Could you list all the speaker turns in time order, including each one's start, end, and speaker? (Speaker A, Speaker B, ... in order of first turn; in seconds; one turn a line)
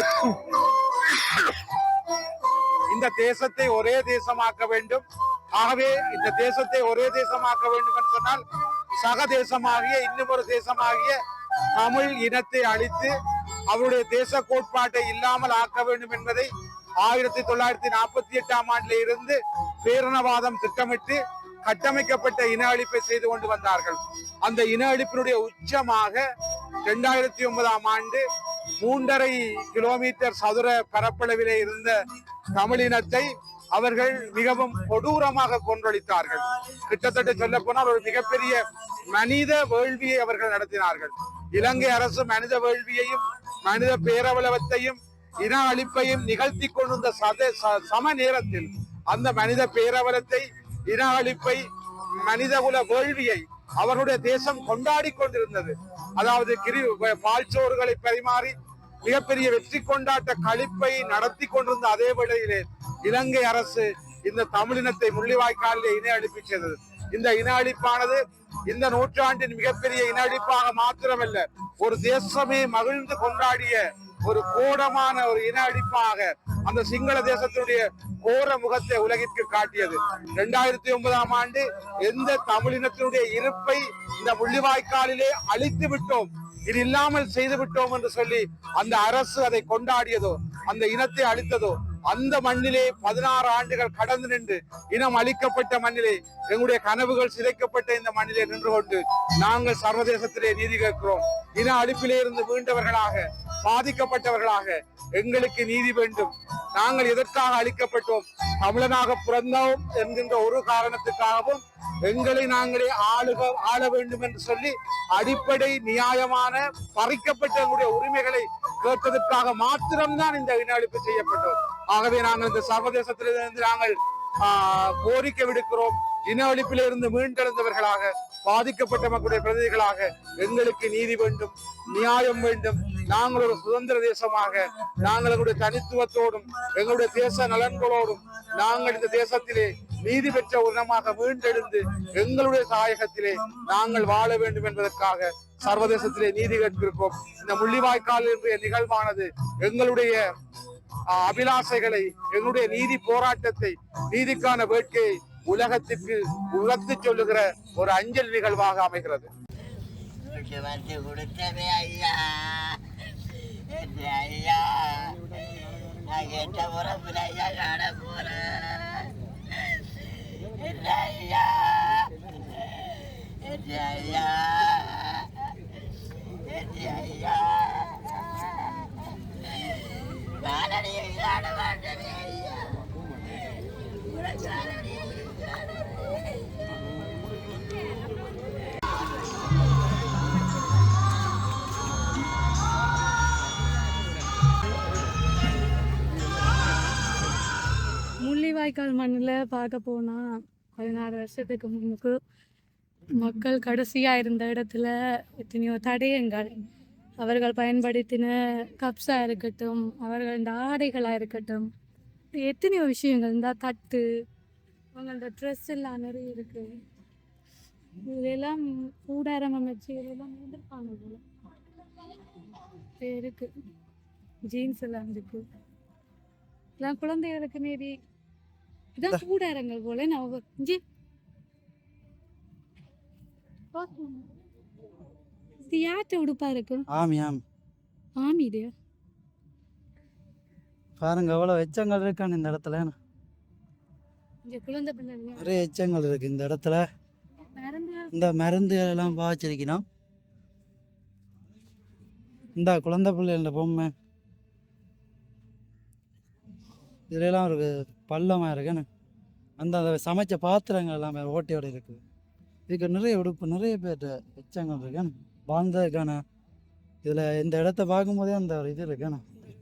Speaker A: 2.9-5.0
Speaker A: 5.6-8.4
Speaker A: 9.0-11.2
Speaker A: 11.8-13.1
Speaker A: 13.7-16.5
Speaker A: 17.0-26.2
Speaker A: 26.9-28.2
Speaker A: 28.8-32.0
Speaker A: 32.6-38.6
Speaker A: 39.1-51.6
Speaker A: 52.2-58.5
Speaker A: 59.0-150.2
Speaker A: 151.1-159.3
Speaker B: 160.2-162.8
Speaker B: 163.7-165.1
Speaker B: 166.0-169.1
Speaker B: 170.5-172.1
Speaker B: 173.4-175.2
Speaker B: 176.5-178.7
Speaker B: 180.4-182.7
Speaker B: 183.5-186.2
Speaker C: 198.2-200.2
Speaker C: 200.8-202.2
Speaker C: 203.2-204.9
Speaker C: 205.4-206.5
Speaker C: 207.2-211.7
Speaker C: 212.4-214.1
Speaker C: 214.9-216.7
Speaker C: 218.0-221.2
Speaker C: 223.0-223.5
Speaker C: 224.5-225.4
Speaker C: 226.8-227.9
Speaker C: 229.0-230.8
Speaker C: 233.7-234.3
Speaker C: 235.7-236.8
Speaker D: 236.9-237.4
Speaker C: 238.2-238.7
Speaker D: 241.0-243.0
Speaker C: 244.5-245.6
Speaker D: 245.4-246.8
Speaker C: 247.5-249.2
Speaker D: 248.1-249.8
Speaker D: 252.6-253.9
Speaker D: 257.1-258.9
Speaker D: 259.6-262.0
Speaker D: 262.7-266.2
Speaker D: 267.0-269.2